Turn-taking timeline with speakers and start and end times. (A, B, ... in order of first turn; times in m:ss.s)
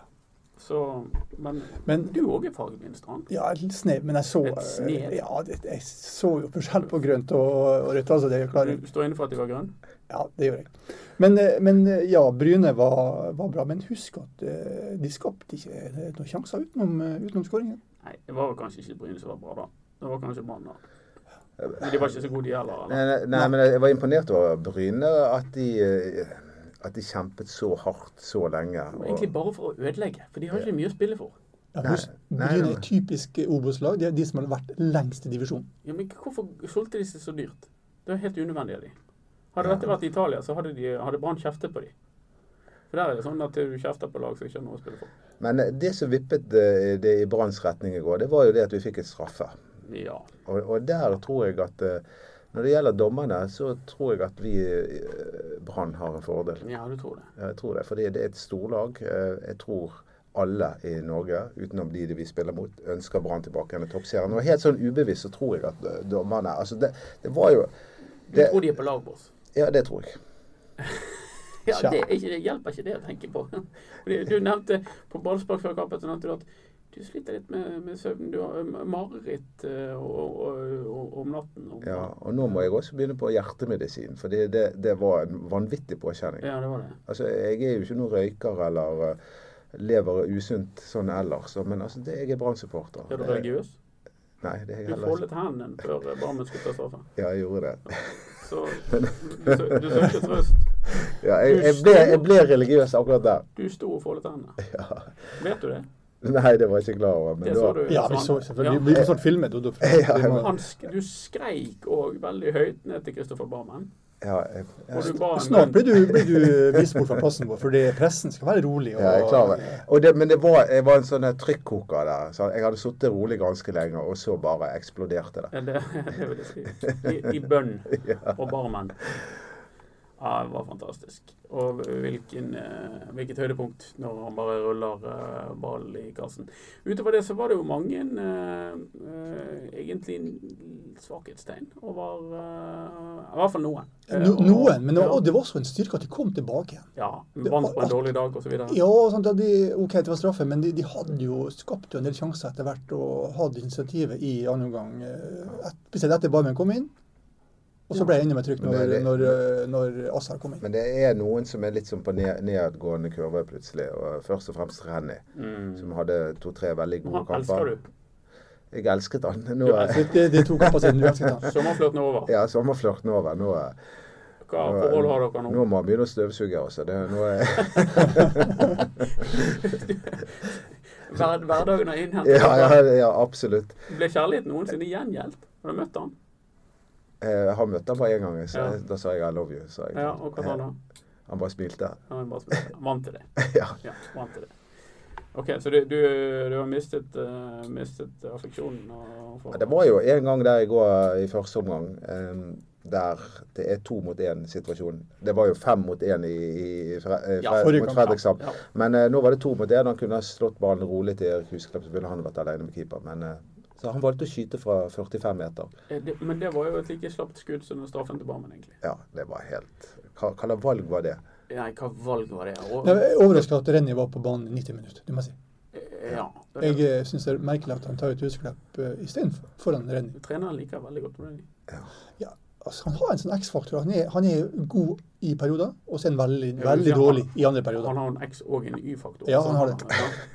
0:00.6-0:03.3 A
0:01.9-0:02.1 B
0:03.3-0:08.8 B
0:04.4-0:05.2 A
0:08.6-0:09.7 A
0:10.1-0:17.8 B
0:18.0-0:20.8 A
0:21.8-0:23.0 A
0:22.8-0:29.3 C
0:28.9-0:31.3 A
0:31.7-0:35.6 B
0:31.8-0:32.8 C
0:35.8-0:38.9 A
0:39.5-0:41.9 A
0:39.6-0:39.8 C
0:42.9-0:45.1 A
0:45.4-0:49.6 C
0:49.9-0:50.3 A
0:50.4-0:56.6 C
0:56.6-0:57.3 A
0:57.4-1:07.7 C
1:08.3-1:09.3 A
1:08.3-1:08.7 C
1:09.5-1:10.2 C
1:11.6-1:22.7 A
1:11.7-1:12.0 B
1:21.8-1:26.5 C
1:26.4-1:27.0 A
1:27.1-1:29.2 C
1:29.7-1:33.4 C
1:33.1-1:33.8 A
1:34.4-1:35.2 C
1:34.9-1:37.1 A
1:37.2-1:38.2 C
1:38.3-1:40.7 A
1:38.9-1:40.2 C
1:40.9-1:43.4 C
1:41.4-1:42.3 A
1:43.6-1:44.6 A
1:44.6-1:45.1 C
1:45.4-1:45.9 A
1:46.2-1:48.1 C
1:47.4-1:49.0 A
1:47.9-1:50.6 B
1:49.8-1:50.5 C
1:50.2-1:53.9 A
1:54.2-1:55.2 C
1:54.9-1:56.1 A
1:55.2-1:59.8 B
1:56.1-1:57.0 C
1:59.0-2:05.5 C
2:05.5-2:09.0 A
2:07.9-2:08.4 C
2:10.2-2:25.2 A
2:24.1-2:26.9 B
2:27.0-2:28.8 A
2:27.4-2:28.0 B
2:28.7-2:36.9 B
2:37.9-2:40.6 B
2:38.6-2:39.4 C
2:40.6-2:45.2 C
2:45.4-2:45.9 A
2:45.8-2:47.7 C
2:47.0-2:47.8 A
2:48.7-2:51.5 C
2:49.6-2:50.1 A
2:49.8-2:51.5 B
2:51.4-2:52.3 A
2:52.3-2:53.8 C
2:54.5-2:55.6 A
2:54.6-2:59.7 C
2:59.0-3:02.8 A
3:02.2-3:03.8 C
3:03.9-3:06.1 A
3:07.2-3:10.6 C
3:09.9-3:10.8 A
3:11.3-3:12.0 C
3:12.1-3:14.5 A
3:13.4-3:13.8 C
3:15.3-3:19.9 A
3:19.5-3:35.7 C
3:27.4-3:28.6 A
3:27.6-3:28.2 B
3:35.9-3:38.8 A
3:38.8-3:41.2 C
3:41.5-3:43.0 A
3:42.8-3:45.4 B
3:45.7-3:46.8 A
3:46.6-3:50.2 B
3:50.1-3:51.5 A
3:52.2-3:58.0 B
3:56.6-4:00.2 A
3:59.2-4:00.1 B